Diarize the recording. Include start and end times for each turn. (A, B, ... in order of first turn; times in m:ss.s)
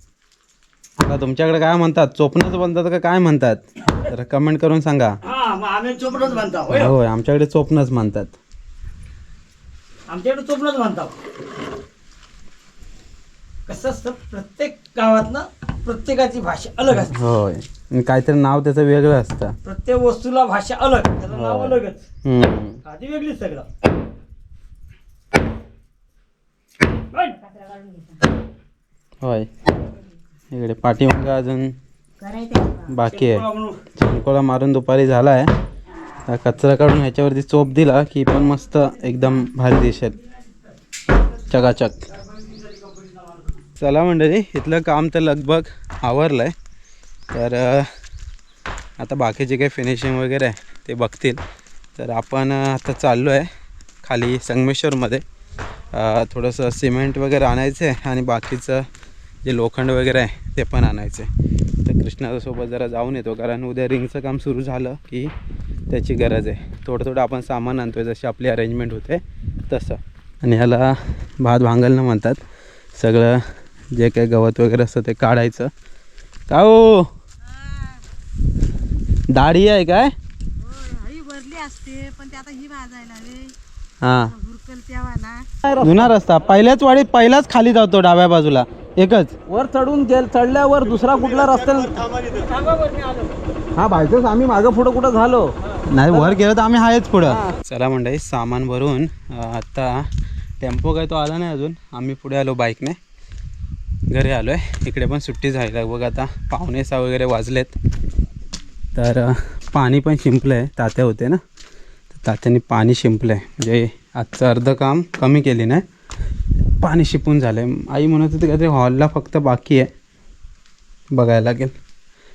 0:01.0-0:05.2 A
0:05.2-0:07.0 B
0:06.7-0:08.4 A
0:10.1-0:11.2 B
0:13.7-0:17.2 B
0:16.9-0:19.6 A
0:19.6-0:22.0 B
0:21.3-0:22.8 A
0:22.8-0:23.7 B
0:27.3-0:28.2 C
0:29.2-0:29.5 A
0:30.5-0:31.8 A
0:32.2-0:32.9 C
0:32.9-0:33.4 A
0:33.1-0:33.8 B
0:34.0-0:35.5 A
0:36.3-0:40.2 A
0:41.5-0:42.1 A
0:42.3-0:43.4 B
0:43.8-0:46.6 A
0:47.3-0:47.9 A
0:49.0-0:51.4 A
0:52.0-0:53.5 A
0:54.0-0:55.2 A
0:55.9-0:58.9 A
0:59.4-1:01.3 A
1:01.8-1:05.3 A
1:05.9-1:12.4 A
1:13.0-1:15.7 A
1:16.5-1:17.1 A
1:17.4-1:18.0 C
1:19.3-1:20.1 A
1:20.6-1:23.5 C
1:24.0-1:24.3 A
1:24.2-1:25.5 C
1:25.6-1:26.1 D
1:25.8-1:29.4 A
1:29.5-1:32.0 D
1:32.2-1:33.3 B
1:33.8-1:34.6 A
1:34.0-1:35.5 D
1:35.9-1:40.1 A
1:40.6-1:43.0 A
1:44.1-1:47.8 A
1:49.0-1:51.4 A
1:52.2-1:55.8 A
1:56.8-1:59.9 A
2:01.1-2:01.7 A